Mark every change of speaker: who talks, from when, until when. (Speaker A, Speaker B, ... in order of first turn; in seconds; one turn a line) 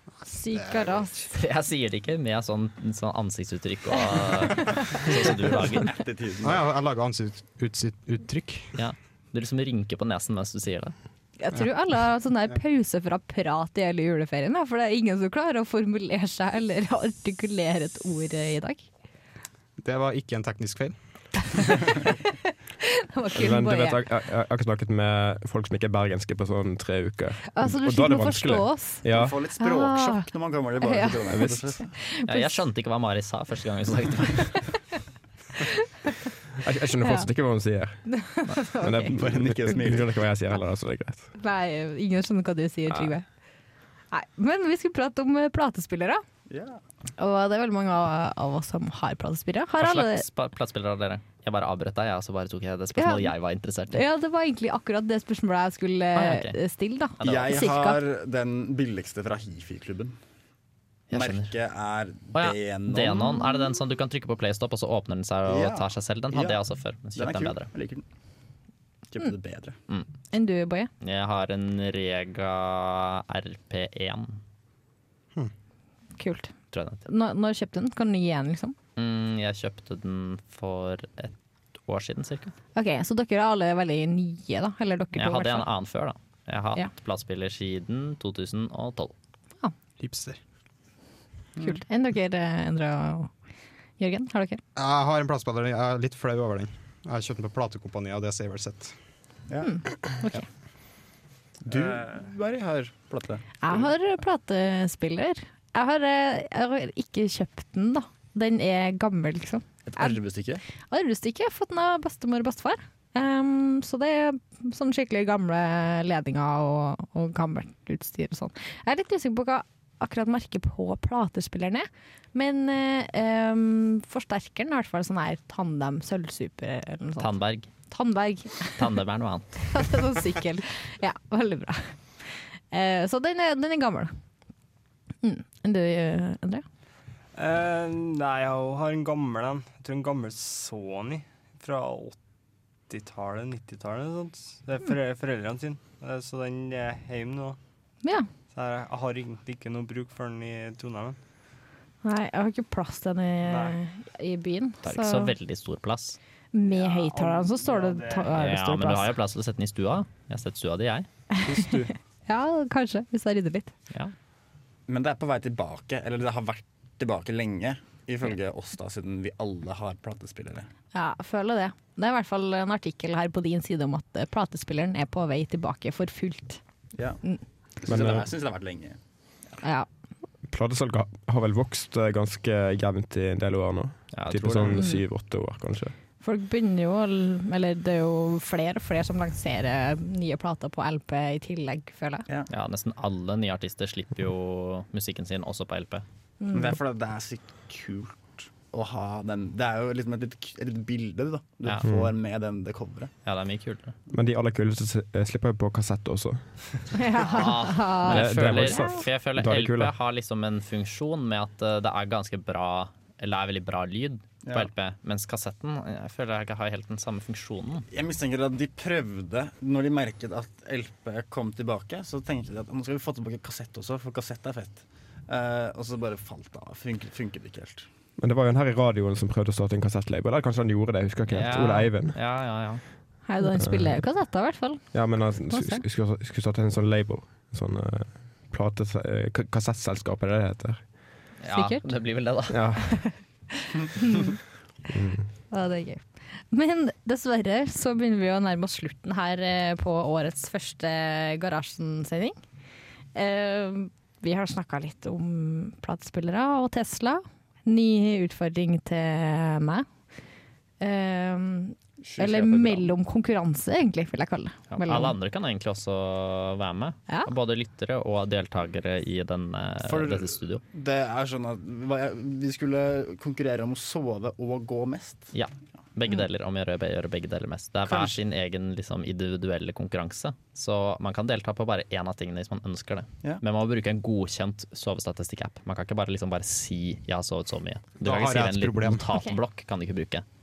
Speaker A: 0.2-1.1
Speaker B: 0.5-1.1
Speaker C: 1.3-6.0
Speaker A: 4.6-5.1
Speaker D: 5.3-6.6
Speaker B: 6.4-8.7
Speaker C: 8.7-10.9
Speaker A: 11.4-18.9
Speaker B: 19.8-20.9
Speaker A: 21.5-24.0
Speaker E: 23.3-29.4
Speaker A: 27.5-29.0
Speaker D: 29.1-31.9
Speaker A: 29.6-30.3
Speaker A: 30.8-32.6
Speaker E: 31.3-31.6
Speaker C: 32.3-34.6
Speaker A: 35.6-36.1
Speaker E: 36.6-38.1
Speaker A: 38.1-39.1
Speaker E: 38.7-41.3
Speaker D: 39.1-40.2
Speaker A: 41.4-43.2
Speaker A: 44.1-46.2
Speaker D: 46.5-46.8
Speaker A: 47.2-50.2
Speaker C: 49.8-54.0
Speaker A: 53.0-53.3
Speaker A: 53.9-58.0
Speaker C: 56.1-56.5
Speaker D: 57.2-60.1
Speaker C: 61.1-61.5
Speaker D: 61.1-63.5
Speaker C: 62.3-67.7
Speaker D: 65.5-66.6
Speaker D: 67.2-68.0
Speaker D: 69.1-69.8
Speaker A: 70.3-70.9
Speaker C: 71.0-74.4
Speaker A: 76.2-76.5
Speaker C: 76.7-77.0
Speaker A: 77.0-78.8
Speaker C: 79.0-82.5
Speaker A: 82.7-85.7
Speaker C: 85.2-89.1
Speaker B: 90.0-90.4
Speaker A: 91.6-93.3
Speaker A: 94.0-94.6
Speaker B: 94.8-98.9
Speaker D: 99.5-99.9
Speaker A: 99.6-100.4
Speaker D: 101.7-103.9
Speaker A: 103.6-110.2
Speaker D: 109.9-110.6
Speaker A: 110.9-127.3
Speaker C: 127.2-127.7
Speaker A: 127.9-128.9
Speaker C: 128.8-130.0
Speaker A: 129.7-134.1
Speaker A: 135.2-136.6
Speaker F: 137.3-142.2
Speaker F: 142.9-147.6
Speaker F: 148.5-151.2
Speaker A: 152.0-155.3
Speaker F: 153.4-153.8
Speaker C: 154.8-156.2
Speaker A: 156.5-159.1
Speaker F: 156.6-158.3
Speaker C: 158.3-161.1
Speaker A: 161.3-163.7
Speaker D: 164.9-170.7
Speaker A: 170.9-176.6
Speaker D: 177.8-179.0
Speaker E: 177.9-178.3
Speaker A: 179.6-179.9
Speaker E: 180.4-185.9
Speaker C: 184.1-184.8
Speaker A: 184.7-185.0
Speaker A: 186.2-192.2
Speaker C: 192.5-196.0
Speaker A: 196.4-196.8
Speaker D: 196.5-203.1
Speaker E: 201.8-202.1
Speaker C: 203.2-203.9
Speaker E: 204.1-207.1
Speaker A: 206.9-209.0
Speaker C: 207.3-217.9
Speaker E: 208.0-209.9
Speaker D: 217.9-227.9
Speaker E: 228.2-232.2
Speaker C: 231.3-232.8
Speaker A: 233.2-235.8
Speaker E: 233.6-234.0
Speaker E: 234.9-241.0
Speaker C: 241.4-242.8
Speaker A: 241.5-241.8
Speaker E: 242.5-243.0
Speaker A: 242.9-244.4
Speaker E: 244.9-245.3
Speaker A: 245.5-252.3
Speaker A: 253.1-259.9
Speaker A: 260.8-265.1
Speaker D: 262.0-262.9
Speaker C: 264.7-270.6
Speaker D: 269.8-275.3
Speaker C: 275.3-290.2
Speaker D: 277.9-278.2
Speaker B: 288.0-289.1